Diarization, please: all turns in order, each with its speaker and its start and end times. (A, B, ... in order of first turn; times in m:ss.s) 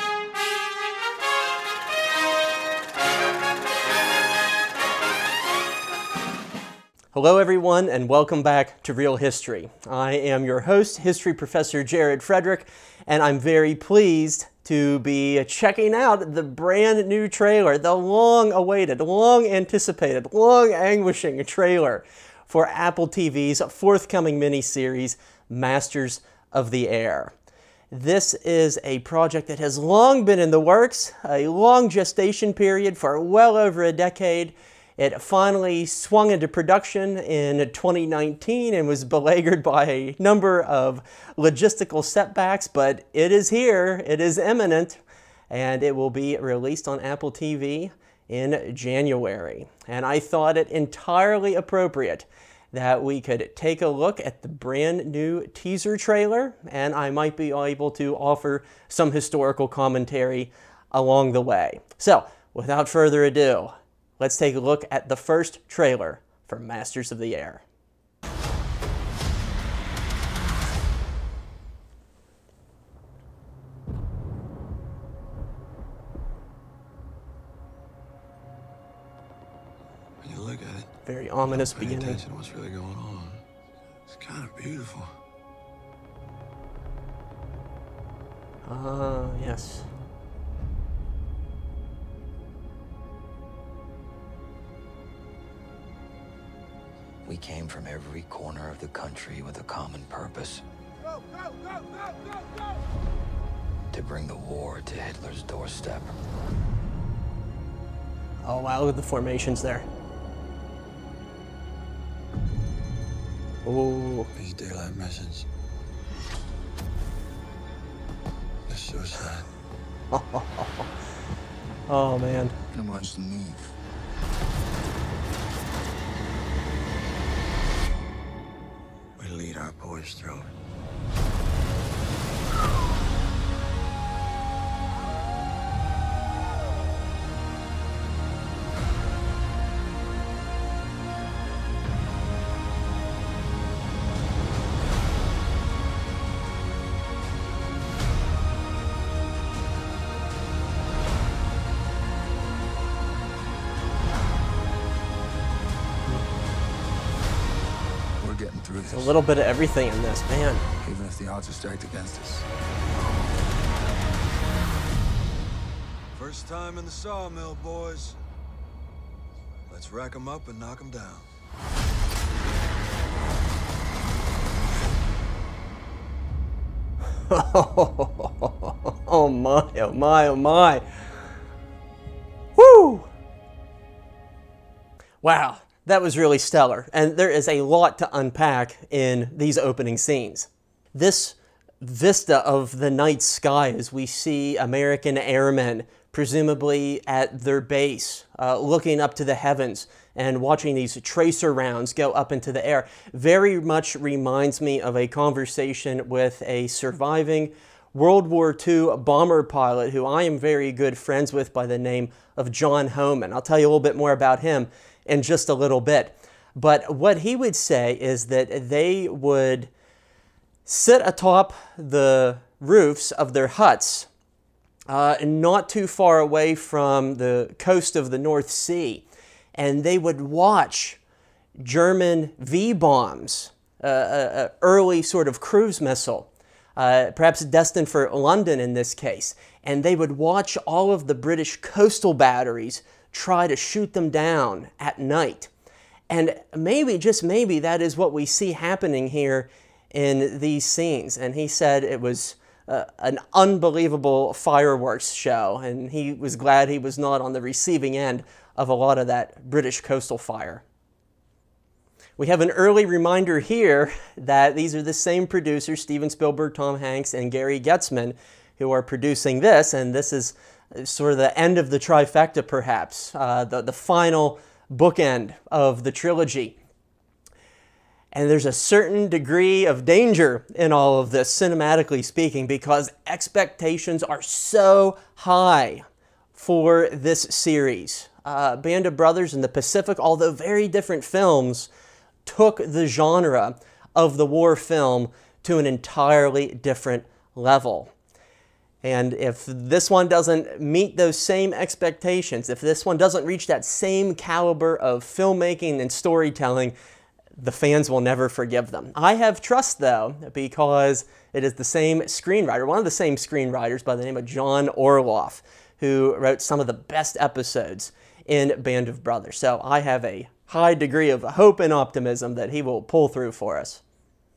0:07.1-0:27.3 A
0:27.9-1:07.6 A
1:20.2-1:20.9 B
1:21.1-1:22.2 A
1:21.5-1:23.4 B
1:24.1-1:25.1 B
1:28.6-1:29.9 A
1:37.3-1:40.6 C
1:43.9-1:46.2 C
1:48.4-1:49.9 A
1:53.6-1:54.3 A
1:54.4-1:55.5 B
1:58.7-1:59.5 B
2:00.1-2:00.9 A
2:01.9-2:02.6 A
2:02.7-2:03.7 C
2:09.2-2:10.5 B
2:38.2-2:39.1 C
2:38.9-2:40.6 A
2:40.8-2:42.5 C
2:46.2-2:48.2 B
2:49.7-2:51.3 B
2:57.3-3:00.8 A
3:02.6-3:03.1 A
3:05.2-3:39.7 A
3:40.6-3:44.1 A
3:44.9-3:51.0 A
3:51.6-4:05.5 A
4:06.1-4:20.6 A
4:22.2-4:36.6 A
4:38.1-4:51.7 A
4:52.2-4:57.9 A
4:58.8-5:06.7 A
5:07.4-5:23.8 A